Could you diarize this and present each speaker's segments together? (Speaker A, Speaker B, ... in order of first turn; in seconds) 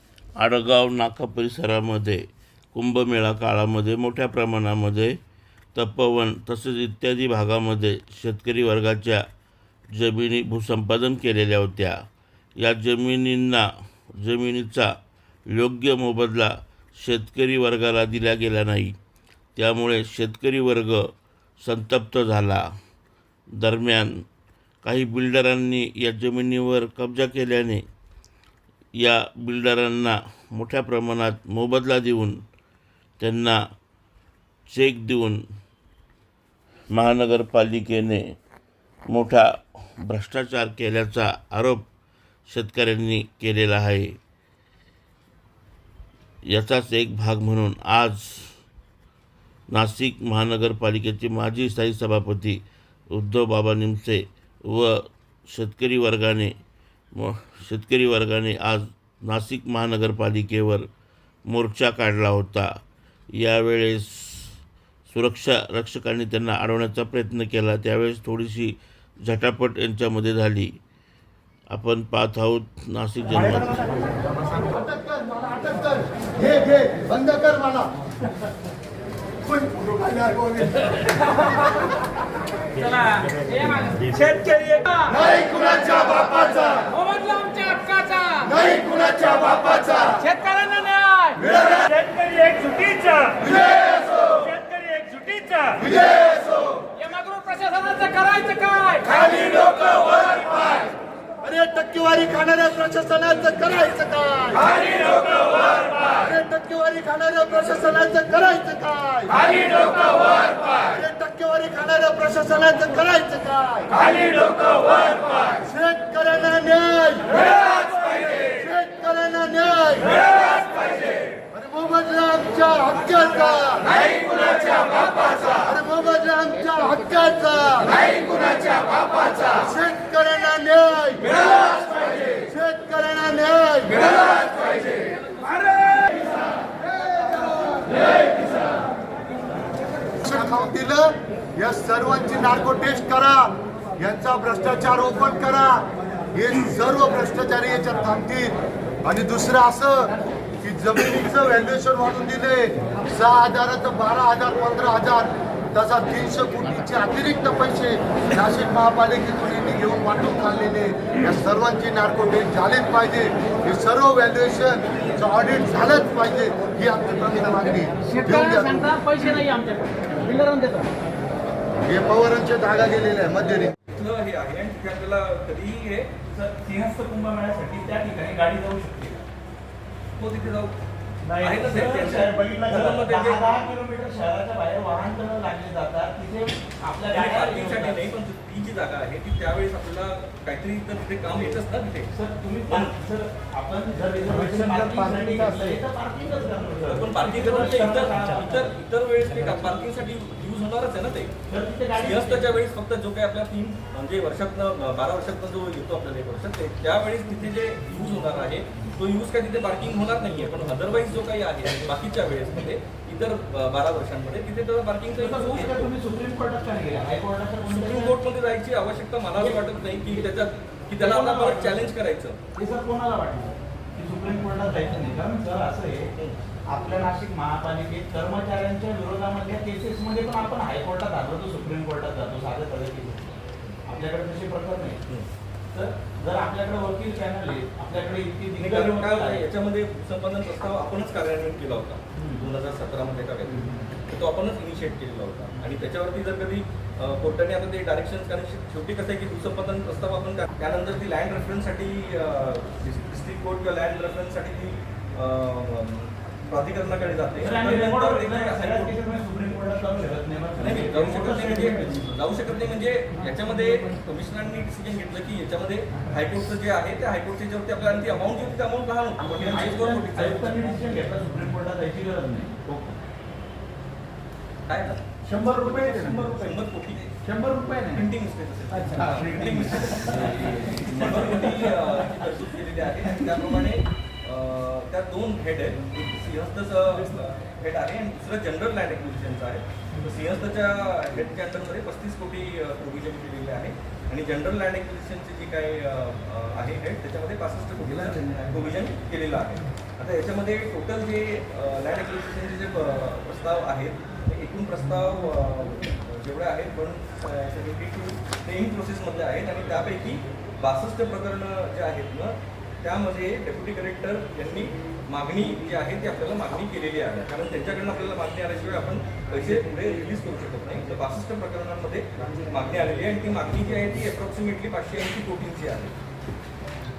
Speaker A: 0.4-2.2, 2.7-5.2, 5.7-9.2, 9.9-11.9, 12.6-13.6, 14.2-14.8, 15.5-16.5, 17.0-18.9, 19.6-21.0, 21.6-22.6, 23.6-24.1, 24.8-27.8, 29.0-32.3, 33.2-33.6, 34.7-35.4, 36.9-38.2, 39.1-39.4, 40.0-41.8, 42.5-44.1, 46.5-48.5, 49.7-52.6, 53.1-54.9, 55.5-56.5, 57.1-60.9, 61.5-62.6, 63.4-64.5, 65.1-70.7, 71.7-73.9
Speaker B: 74.6-77.9, 79.4-81.0, 85.1-86.9, 88.4-90.2, 93.4-94.4, 95.7-96.7, 99.1-100.9, 101.4-134.5, 140.2-145.8, 146.3-168.9, 171.8-173.7
Speaker C: 82.8-85.2, 86.9-88.5, 90.2-93.4, 94.4-95.8, 96.9-99.1, 168.2-170.9
Speaker D: 84.1-84.8, 173.9-176.1, 180.2-180.7, 181.4-183.7, 187.1-192.1, 192.7-192.9, 196.9-201.3, 201.9-215.9, 217.6-222.4, 238.6-258.9, 260.6-270.7, 274.7-277.1, 277.9-325.9
Speaker E: 176.3-179.2, 181.2-188.0, 192.1-198.7, 199.2-199.7, 201.5-202.6, 215.2-218.1, 220.9-221.9, 222.5-226.1, 226.7-235.0, 235.7-239.4, 242.2-242.5, 243.4-243.8, 257.4-261.9, 269.2-273.0, 275.2-276.5, 277.2-278.1, 278.7-281.5